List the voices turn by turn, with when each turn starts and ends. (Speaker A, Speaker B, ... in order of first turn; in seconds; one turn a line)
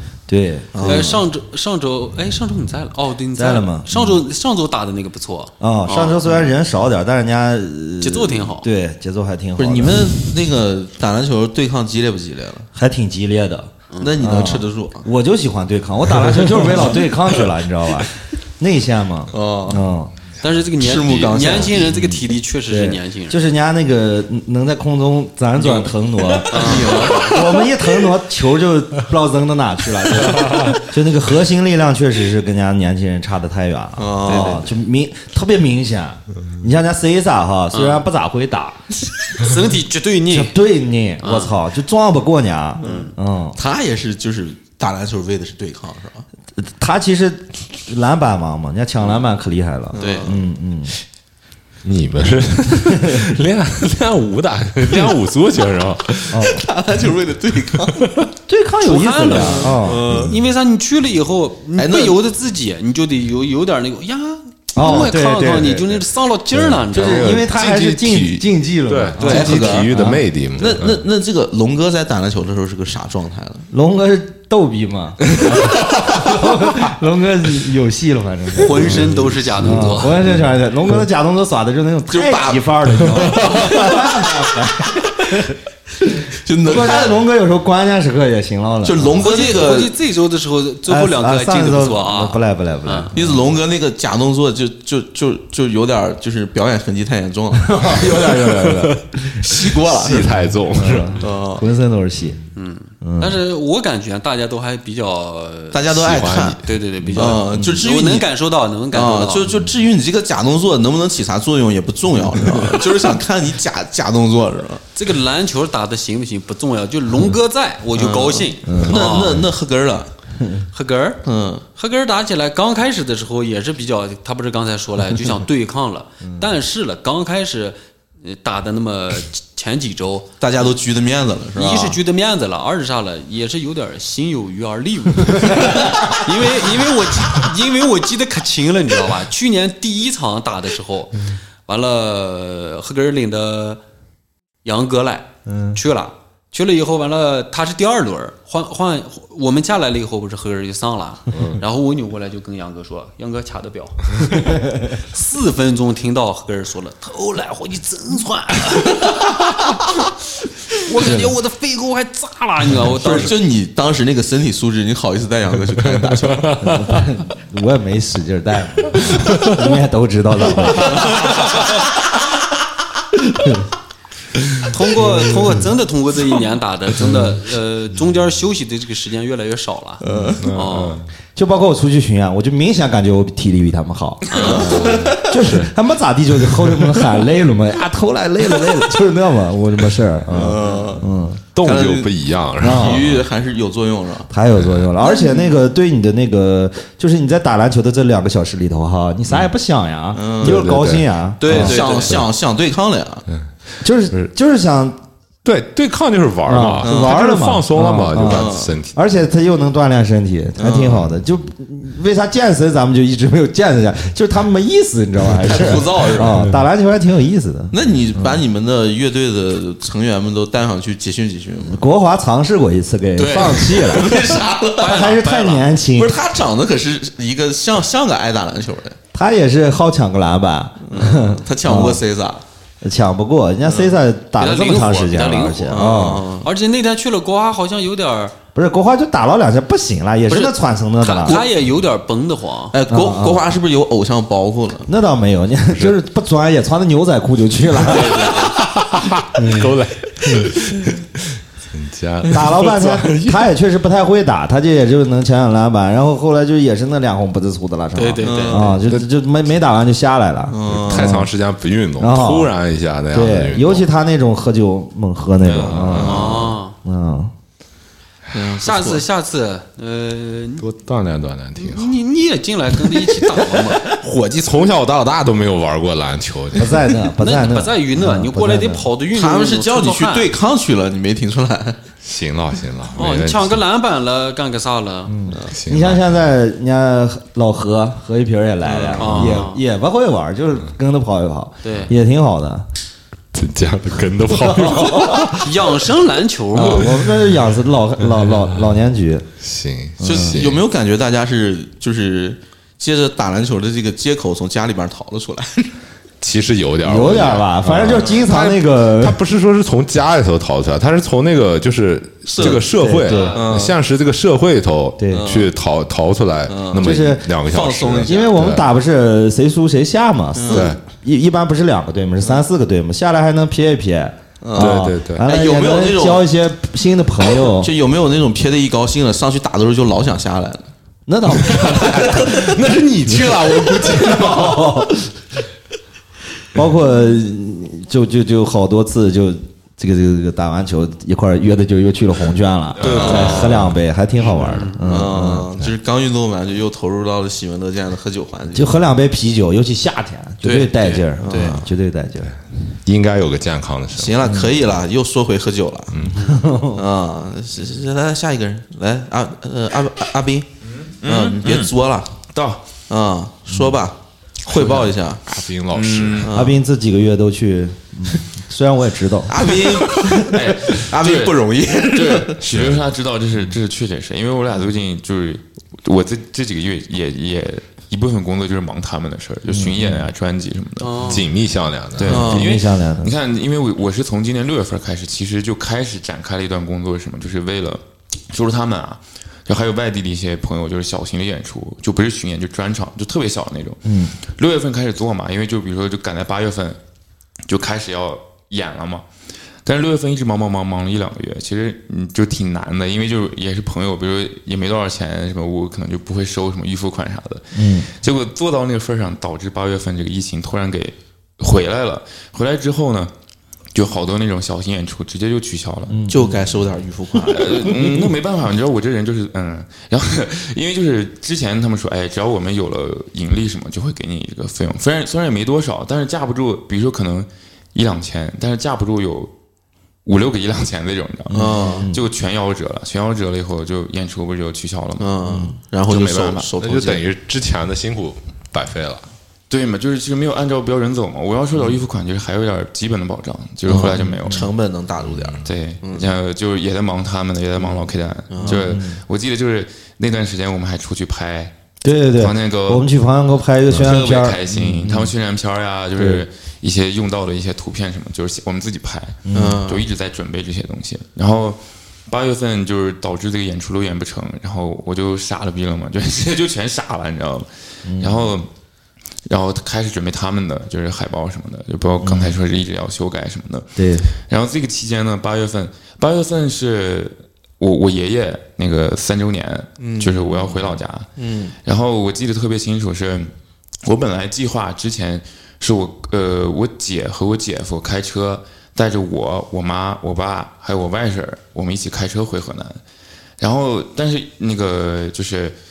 Speaker A: 0.3-1.1
Speaker B: 0.7-1.2
Speaker C: 0.8-6.3
Speaker A: 3.4-4.2
Speaker A: 5.6-10.1
Speaker C: 8.0-8.7
Speaker B: 9.6-12.7
Speaker A: 12.7-20.1
Speaker C: 13.9-14.2
Speaker B: 14.0-15.1
Speaker B: 19.3-19.8
Speaker C: 20.4-23.4
Speaker B: 20.8-21.9
Speaker A: 21.9-38.9
Speaker C: 26.5-27.5
Speaker B: 26.5-27.4
Speaker D: 30.3-30.8
Speaker B: 34.0-34.7
Speaker C: 34.2-34.7
Speaker C: 37.7-38.0
Speaker C: 39.3-40.5
Speaker A: 40.3-43.6
Speaker C: 41.2-41.5
Speaker C: 42.8-43.1
Speaker B: 42.8-46.2
Speaker A: 46.6-50.9
Speaker B: 49.9-50.4
Speaker C: 50.0-50.3
Speaker D: 51.8-56.6
Speaker A: 52.9-53.3
Speaker A: 56.3-56.6
Speaker B: 56.4-58.1
Speaker A: 58.5-60.1
Speaker C: 58.8-67.6
Speaker B: 59.3-60.3
Speaker B: 61.8-62.2
Speaker A: 64.7-66.0
Speaker D: 66.5-71.0
Speaker A: 66.9-70.2
Speaker C: 69.2-69.6
Speaker B: 69.2-69.9
Speaker B: 70.5-73.7
Speaker A: 73.7-85.6
Speaker C: 78.6-80.2
Speaker D: 78.9-80.1
Speaker B: 82.1-84.1
Speaker A: 86.2-89.3
Speaker B: 86.3-87.2
Speaker B: 88.8-89.9
Speaker C: 89.2-93.1
Speaker A: 90.8-93.4
Speaker B: 93.1-98.3
Speaker A: 97.5-99.0
Speaker D: 98.4-99.0
Speaker B: 99.3-100.3
Speaker D: 99.8-101.2
Speaker A: 100.1-102.4
Speaker B: 101.2-101.6
Speaker C: 102.5-105.9
Speaker A: 103.0-103.4
Speaker B: 105.7-106.6
Speaker D: 105.9-107.2
Speaker C: 106.6-109.5
Speaker B: 107.1-108.3
Speaker A: 107.5-107.8
Speaker B: 108.9-114.8
Speaker C: 114.9-119.4
Speaker B: 117.9-120.1
Speaker A: 118.6-119.1
Speaker C: 120.7-130.3
Speaker B: 121.2-121.6
Speaker B: 130.4-132.0
Speaker C: 131.5-143.8
Speaker C: 144.6-159.8
Speaker A: 145.5-145.8
Speaker D: 151.3-151.6
Speaker C: 160.7-163.3
Speaker A: 161.0-161.3
Speaker B: 162.9-166.6
Speaker A: 166.6-171.4
Speaker C: 171.1-171.6
Speaker A: 173.3-173.7
Speaker C: 174.7-181.0
Speaker B: 180.0-180.4
Speaker A: 180.1-180.4
Speaker D: 180.4-181.1
Speaker A: 181.3-191.4
Speaker C: 184.3-185.1
Speaker B: 184.3-185.3
Speaker D: 184.9-185.7
Speaker B: 190.3-191.1
Speaker C: 190.6-190.9
Speaker D: 191.5-193.2
Speaker B: 191.6-194.3
Speaker A: 192.6-193.0
Speaker A: 194.3-201.8
Speaker D: 194.6-194.9
Speaker B: 195.0-195.5
Speaker B: 200.1-200.6
Speaker D: 200.4-202.2
Speaker C: 201.4-202.2
Speaker B: 201.5-203.3
Speaker A: 203.8-205.0
Speaker D: 205.4-209.0
Speaker A: 206.4-218.4
Speaker B: 206.8-207.2
Speaker B: 208.2-208.7
Speaker B: 210.6-211.1
Speaker B: 215.4-216.4
Speaker B: 217.7-221.8
Speaker A: 221.7-224.2
Speaker C: 223.2-225.7
Speaker B: 223.6-225.1
Speaker A: 224.8-226.2
Speaker B: 225.9-229.0
Speaker A: 229.1-232.0
Speaker B: 230.8-232.4
Speaker A: 232.8-236.2
Speaker C: 234.4-238.3
Speaker B: 235.7-236.5
Speaker A: 238.5-241.4
Speaker C: 240.3-242.8
Speaker B: 242.7-244.9
Speaker A: 242.9-243.4
Speaker A: 244.9-248.4
Speaker D: 247.8-253.4
Speaker C: 247.9-248.5
Speaker A: 249.3-250.6
Speaker A: 252.3-261.3
Speaker C: 257.9-258.8
Speaker B: 258.2-258.8
Speaker B: 260.5-261.2
Speaker D: 260.7-263.9
Speaker A: 262.0-262.5
Speaker A: 263.1-267.3
Speaker E: 265.4-266.0
Speaker D: 265.5-266.4
Speaker B: 266.0-266.5
Speaker C: 266.0-266.7
Speaker B: 268.3-269.0
Speaker C: 268.6-270.7
Speaker D: 270.6-272.0
Speaker C: 271.6-273.8
Speaker D: 272.8-277.0
Speaker A: 276.6-278.9
Speaker C: 277.2-280.3
Speaker B: 279.1-281.8
Speaker D: 282.0-283.6
Speaker C: 282.9-285.2
Speaker A: 285.1-292.6
Speaker D: 285.5-286.0
Speaker B: 288.6-289.1
Speaker C: 289.0-289.6
Speaker D: 289.0-289.4
Speaker C: 291.6-291.9
Speaker D: 293.3-295.8
Speaker A: 294.3-295.5
Speaker C: 295.4-297.0
Speaker A: 296.5-299.3
Speaker D: 299.4-300.6
Speaker A: 300.0-300.4
Speaker B: 300.0-305.7
Speaker D: 306.2-318.6
Speaker A: 306.8-309.2
Speaker B: 312.2-312.7
Speaker A: 312.4-313.4
Speaker B: 313.3-313.7
Speaker A: 315.0-315.4
Speaker B: 315.1-315.5
Speaker B: 316.5-318.2
Speaker A: 316.7-327.7
Speaker B: 320.3-320.7
Speaker D: 320.5-320.8
Speaker B: 324.4-326.3
Speaker D: 324.6-325.2
Speaker B: 327.5-330.7
Speaker A: 331.1-335.2
Speaker D: 331.4-334.7
Speaker A: 336.5-345.5
Speaker E: 342.8-343.6
Speaker D: 342.8-343.8
Speaker B: 342.9-343.5
Speaker C: 344.2-344.9
Speaker B: 344.9-348.7
Speaker A: 348.5-352.4
Speaker B: 350.4-351.7
Speaker D: 352.8-354.3
Speaker B: 353.9-356.0
Speaker A: 354.2-354.6
Speaker D: 355.9-356.2
Speaker A: 356.1-356.8
Speaker C: 356.1-356.5
Speaker B: 356.7-360.5
Speaker E: 360.8-361.7
Speaker B: 361.0-362.1
Speaker E: 362.3-362.6
Speaker B: 362.9-365.2
Speaker D: 364.6-366.3
Speaker E: 365.7-366.3
Speaker B: 366.2-366.6
Speaker A: 366.3-370.4
Speaker B: 369.3-372.4
Speaker E: 370.2-381.2
Speaker D: 372.5-372.8
Speaker A: 379.5-380.1
Speaker C: 380.8-381.3
Speaker D: 381.0-382.3
Speaker E: 381.9-396.8
Speaker A: 382.0-383.1
Speaker B: 382.1-382.5
Speaker A: 393.8-394.2
Speaker E: 397.5-399.1
Speaker E: 399.6-413.1
Speaker A: 407.5-407.9
Speaker E: 413.7-416.1
Speaker A: 415.9-416.6
Speaker B: 416.1-417.8
Speaker E: 417.3-429.3
Speaker E: 430.0-435.1
Speaker A: 431.3-432.1
Speaker B: 431.3-431.9
Speaker B: 435.0-437.0
Speaker A: 435.2-435.5
Speaker E: 435.9-436.5
Speaker D: 436.6-439.1
Speaker E: 439.5-444.5
Speaker B: 443.7-446.1
Speaker A: 443.8-444.5
Speaker D: 445.0-445.4
Speaker E: 445.4-451.5
Speaker B: 447.6-448.6
Speaker A: 448.4-449.0
Speaker A: 451.8-455.1
Speaker E: 452.1-452.9
Speaker D: 453.7-454.0
Speaker E: 453.7-468.5
Speaker A: 455.9-456.2
Speaker A: 459.2-459.6
Speaker B: 459.3-459.8
Speaker A: 467.8-468.3
Speaker E: 469.2-481.1
Speaker A: 472.0-472.4
Speaker A: 473.8-474.1
Speaker B: 479.8-480.6
Speaker B: 481.2-481.5
Speaker E: 481.6-483.3
Speaker E: 483.8-492.8
Speaker E: 493.4-495.5